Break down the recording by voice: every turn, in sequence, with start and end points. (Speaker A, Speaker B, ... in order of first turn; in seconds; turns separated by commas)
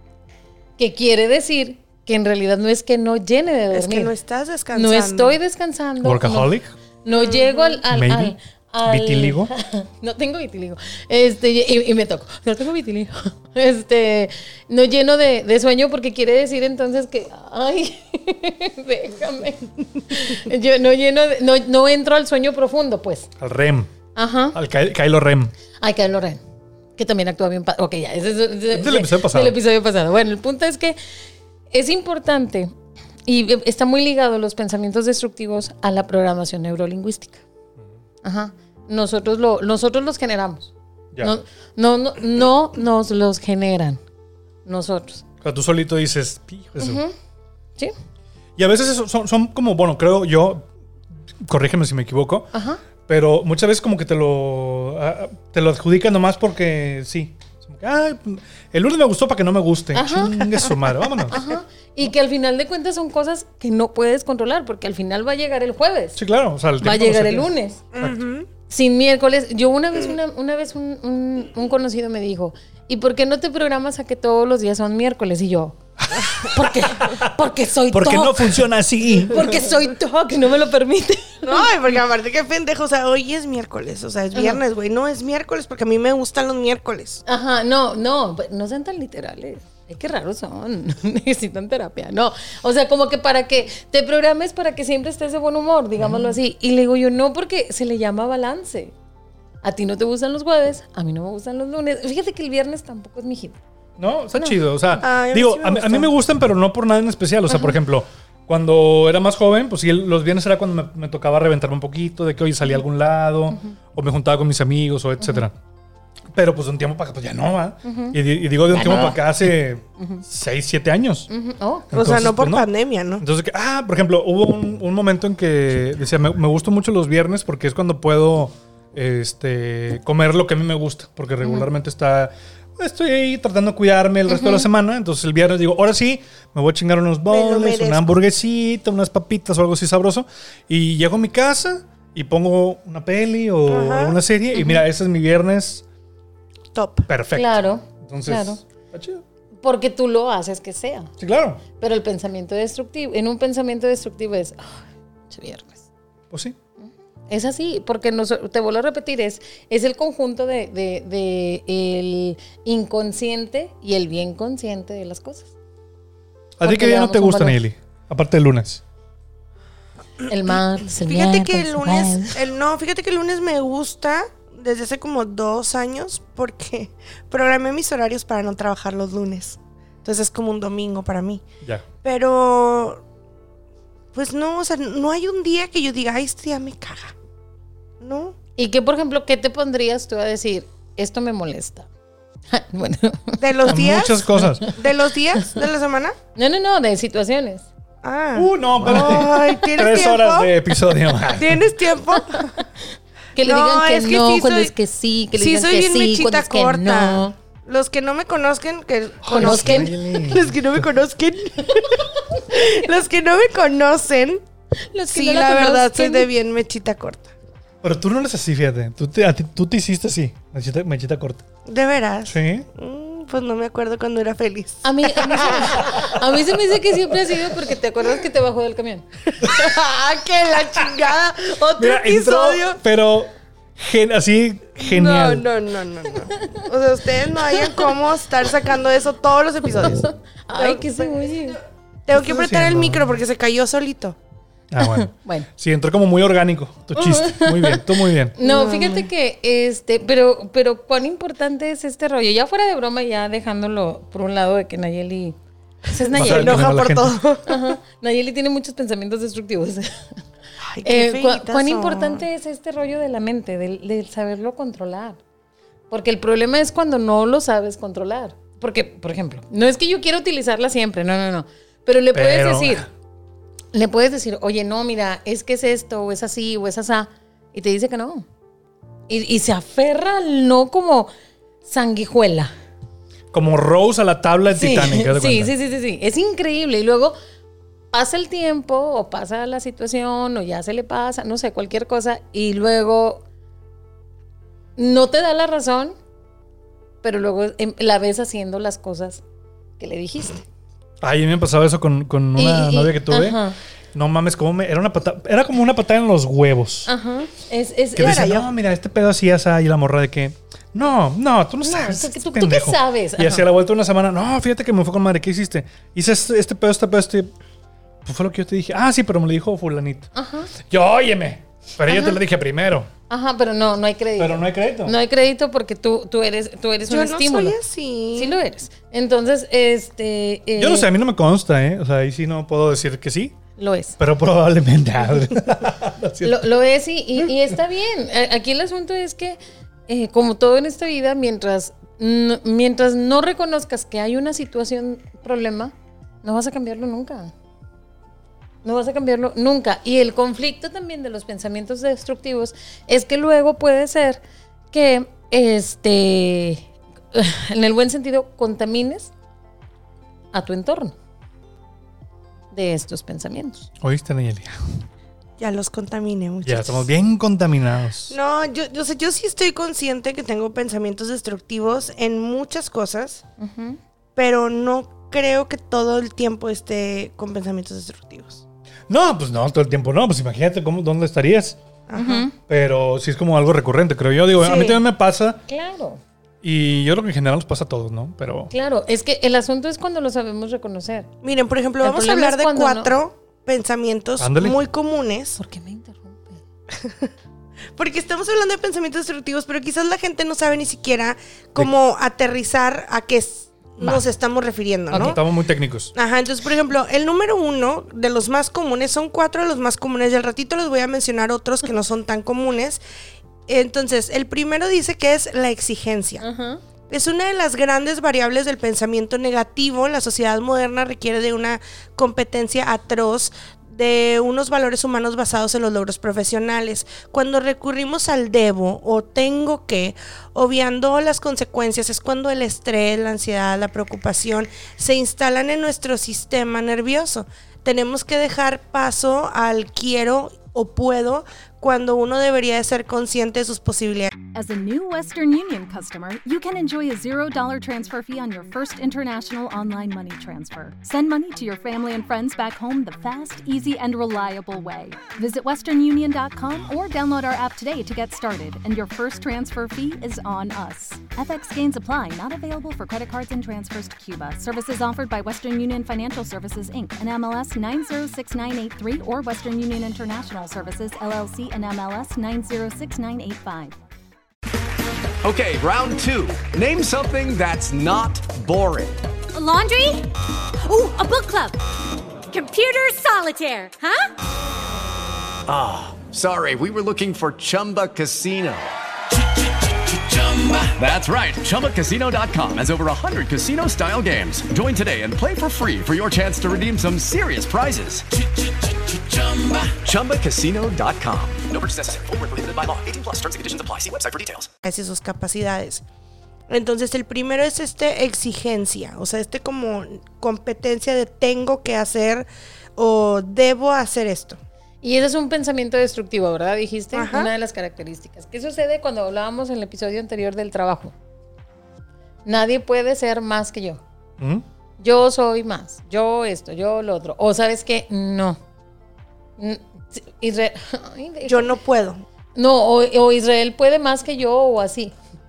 Speaker A: 0.8-4.1, Speaker B: 3.7-5.4, Speaker A: 4.7-23.3, Speaker C: 6.0-6.7, Speaker B: 7.1-7.8, Speaker C: 7.9-9.5, Speaker C: 23.4-23.9, Speaker A: 24.1-24.6, Speaker C: 24.5-25.5, Speaker A: 25.8-26.4, Speaker A: 27.0-31.0, Speaker C: 28.7-29.6, Speaker A: 31.7-32.7, Speaker A: 33.2-37.4, Speaker A: 38.2-44.0, Speaker A: 44.6-45.2, Speaker C: 45.4-47.0, Speaker A: 46.8-47.1, Speaker C: 48.6-50.7, Speaker C: 51.4-52.5, Speaker A: 52.5-52.8, Speaker C: 53.0-61.4, Speaker A: 59.9-66.2, Speaker C: 66.2-68.2, Speaker A: 66.8-67.8, Speaker B: 67.9-68.5, Speaker A: 68.7-75.8, Speaker C: 76.0-77.3, Speaker A: 76.4-78.6, Speaker C: 77.9-79.5, Speaker A: 79.3-81.7, Speaker B: 81.4-87.2, Speaker A: 84.3-84.6, Speaker A: 87.2-98.9, Speaker C: 96.0-96.4, Speaker A: 99.6-103.6, Speaker C: 104.0-115.5, Speaker A: 104.3-104.6, Speaker B: 105.0-106.1, Speaker A: 107.5-107.7, Speaker C: 116.3-121.3, Speaker A: 117.8-118.2, Speaker A: 118.7-119.3, Speaker A: 120.0-120.2, Speaker A: 121.3-121.9, Speaker C: 121.9-145.8, Speaker B: 121.9-123.2, Speaker A: 131.4-131.7, Speaker A: 134.3-134.7, Speaker B: 137.3-138.1, Speaker B: 143.7-144.2, Speaker A: 144.5-144.8, Speaker B: 146.7-147.1, Speaker C: 147.1-149.2, Speaker A: 147.3-148.6, Speaker A: 149.6-151.1, Speaker C: 151.2-151.6, Speaker A: 151.8-155.8, Speaker C: 156.3-156.6, Speaker A: 157.3-165.5, Speaker C: 166.6-168.8, Speaker A: 166.6-167.6, Speaker A: 170.3-172.4, Speaker B: 170.9-181.4, Speaker B: 182.0-183.0, Speaker B: 184.1-187.1, Speaker B: 188.0-188.3, Speaker A: 188.6-191.9, Speaker A: 192.5-193.8, Speaker B: 193.4-196.2, Speaker C: 193.7-194.7, Speaker A: 194.3-194.6, Speaker A: 196.3-197.7, Speaker B: 198.0-200.5, Speaker C: 198.3-201.7, Speaker B: 201.3-202.6, Speaker A: 203.3-207.3, Speaker B: 203.4-204.7, Speaker B: 205.3-214.4, Speaker C: 209.2-210.8, Speaker A: 209.3-210.0, Speaker A: 214.9-216.3, Speaker B: 215.1-217.3, Speaker C: 217.8-221.4, Speaker B: 221.7-226.2, Speaker C: 222.2-222.7, Speaker A: 224.8-229.1, Speaker B: 229.4-232.8, Speaker C: 231.8-235.5, Speaker B: 234.8-241.3, Speaker A: 239.9-241.6, Speaker B: 242.1-244.2, Speaker C: 242.1-243.2, Speaker C: 244.7-248.3, Speaker A: 244.8-245.5, Speaker A: 246.9-247.8, Speaker A: 248.4-256.7, Speaker B: 248.4-249.1, Speaker B: 256.1-257.7, Speaker C: 256.1-257.2, Speaker A: 257.5-260.1, Speaker B: 260.7-262.2, Speaker A: 260.8-265.2, Speaker A: 265.9-272.9, Speaker C: 272.1-272.9, Speaker A: 273.7-278.2, Speaker A: 279.1-281.1, Speaker A: 281.6-282.5, Speaker C: 283.3-285.5, Speaker A: 284.5-287.1, Speaker A: 287.9-293.2, Speaker A: 294.8-295.9, Speaker A: 297.0-299.2, Speaker A: 299.8-300.4, Speaker C: 301.0-306.9, Speaker A: 302.4-303.6, Speaker A: 306.9-308.3, Speaker C: 307.9-317.3, Speaker B: 308.0-308.5, Speaker A: 311.6-313.4, Speaker C: 318.0-320.1, Speaker A: 320.1-320.5, Speaker C: 320.6-322.9, Speaker A: 321.9-322.2, Speaker A: 323.1-327.6, Speaker C: 324.2-324.9, Speaker B: 326.9-328.4, Speaker A: 328.1-330.9, Speaker C: 330.6-333.4, Speaker A: 333.6-334.0, Speaker C: 334.0-336.4, Speaker A: 336.2-347.3, Speaker A: 348.6-359.1, Speaker A: 360.3-360.9, Speaker A: 362.5-363.7, Speaker C: 363.8-364.6, Speaker B: 365.4-366.9, Speaker C: 366.4-368.1, Speaker B: 368.1-373.2, Speaker A: 373.4-373.8, Speaker B: 374.1-378.4, Speaker C: 378.9-381.6, Speaker B: 381.9-382.3, Speaker A: 381.9-382.3, Speaker C: 382.5-385.4, Speaker B: 384.4-384.8, Speaker A: 385.5-386.0, Speaker C: 386.4-388.5, Speaker A: 388.5-391.1, Speaker B: 391.2-395.4, Speaker A: 391.8-392.9, Speaker C: 394.2-394.6, Speaker A: 395.4-396.4, Speaker B: 396.7-397.1, Speaker B: 397.8-405.2, Speaker C: 403.8-404.1, Speaker C: 404.9-405.9, Speaker B: 405.9-412.8, Speaker B: 413.5-416.2, Speaker A: 416.2-416.6, Speaker B: 416.9-444.1, Speaker D: 444.3-473.7, Speaker E: 475.2-479.0, Speaker F: 479.3-480.1, Speaker F: 480.6-481.6, Speaker F: 482.3-484.1, Speaker E: 485.5-488.7, Speaker E: 489.8-498.1, Speaker E: 498.7-504.5, Speaker B: 504.6-505.8, Speaker B: 506.5-514.4, Speaker A: 514.8-520.9, Speaker B: 516.9-517.3, Speaker A: 522.2-523.8, Speaker C: 524.2-524.4, Speaker A: 524.8-528.4, Speaker A: 529.4-531.5, Speaker B: 531.2-532.0, Speaker A: 532.4-534.9